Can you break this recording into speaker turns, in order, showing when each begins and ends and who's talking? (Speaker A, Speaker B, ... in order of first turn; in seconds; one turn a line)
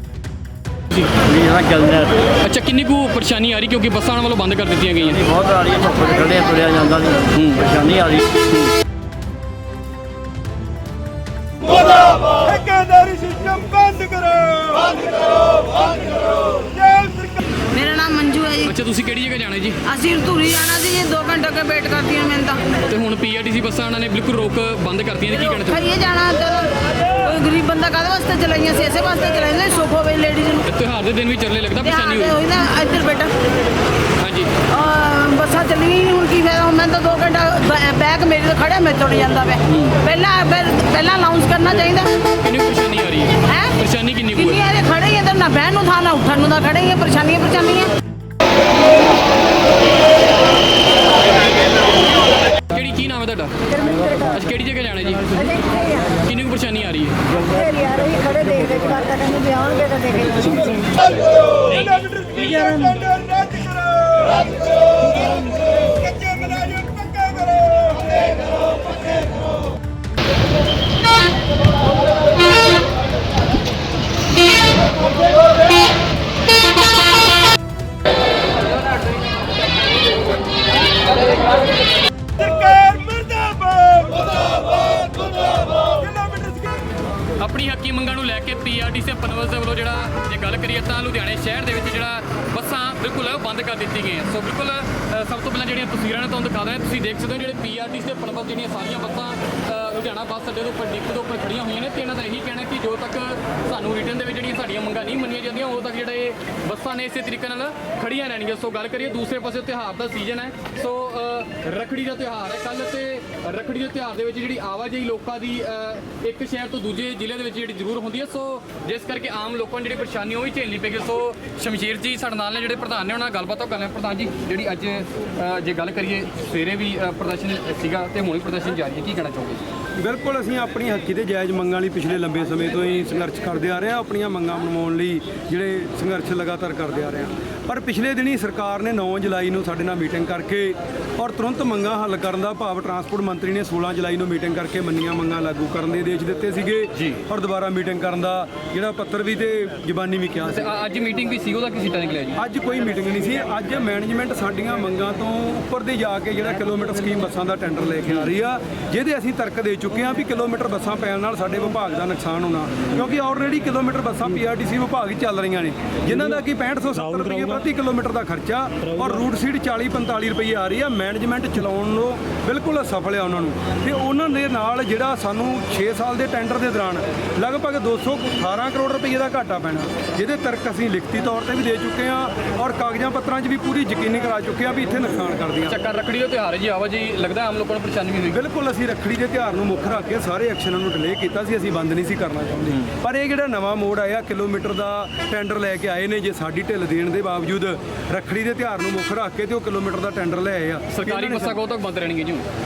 Speaker A: 0.9-1.2
Speaker B: 1.3-2.1
Speaker A: 2.4-5.4
Speaker B: 5.3-7.3
Speaker A: 7.3-8.7
Speaker B: 7.9-8.2
Speaker C: 12.3-15.0
Speaker C: 16.8-17.3
Speaker D: 17.6-18.7
Speaker A: 18.6-19.8
Speaker D: 19.8-22.8
Speaker A: 22.9-25.9
Speaker D: 25.6-30.6
Speaker A: 30.6-32.4
Speaker D: 31.8-33.3
Speaker A: 34.2-34.6
Speaker D: 34.7-42.1
Speaker A: 39.7-40.0
Speaker A: 42.4-44.6
Speaker D: 43.5-43.8
Speaker D: 44.3-47.9
Speaker A: 52.7-57.4
Speaker E: 57.5-60.6
Speaker C: 61.6-64.6
Speaker C: 65.3-68.1
Speaker C: 82.4-84.3
Speaker C: 85.8-86.8
Speaker A: 87.4-129.6
Speaker C: 130.0-150.8
Speaker A: 150.5-152.4
Speaker C: 152.4-185.8
Speaker A: 158.1-158.3
Speaker A: 185.7-188.4
Speaker C: 188.3-201.6
Speaker A: 200.9-202.4